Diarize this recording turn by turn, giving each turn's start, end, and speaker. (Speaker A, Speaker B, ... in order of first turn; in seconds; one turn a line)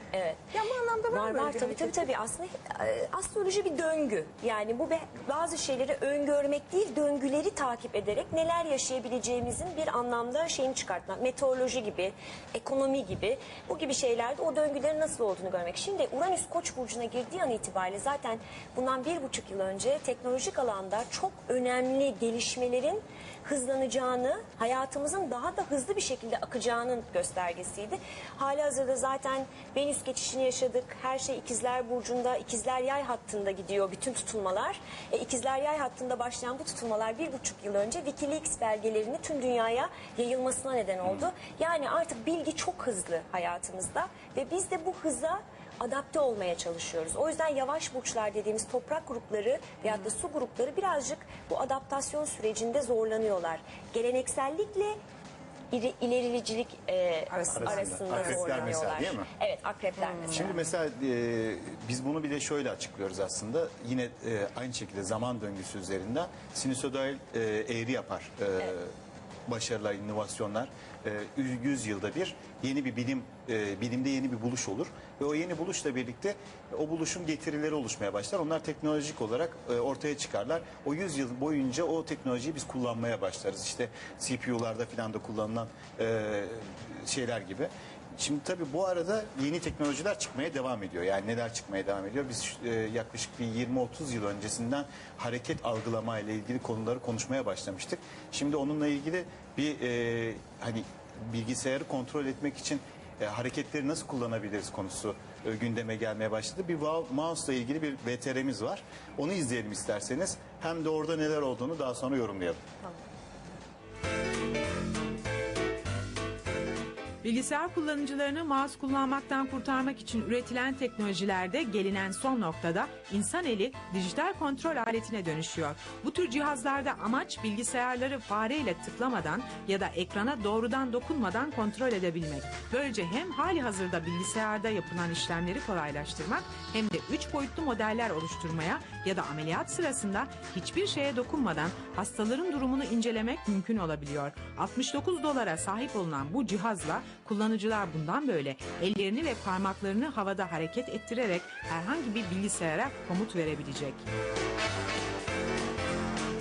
Speaker A: 0.1-0.5
Speaker B: 0.5-2.1
Speaker A: 1.1-55.0
Speaker A: 55.7-60.5
Speaker B: 57.3-58.7
Speaker C: 57.5-59.3
Speaker B: 60.1-60.6
Speaker C: 60.3-68.9
Speaker C: 69.5-112.6
Speaker D: 117.2-154.1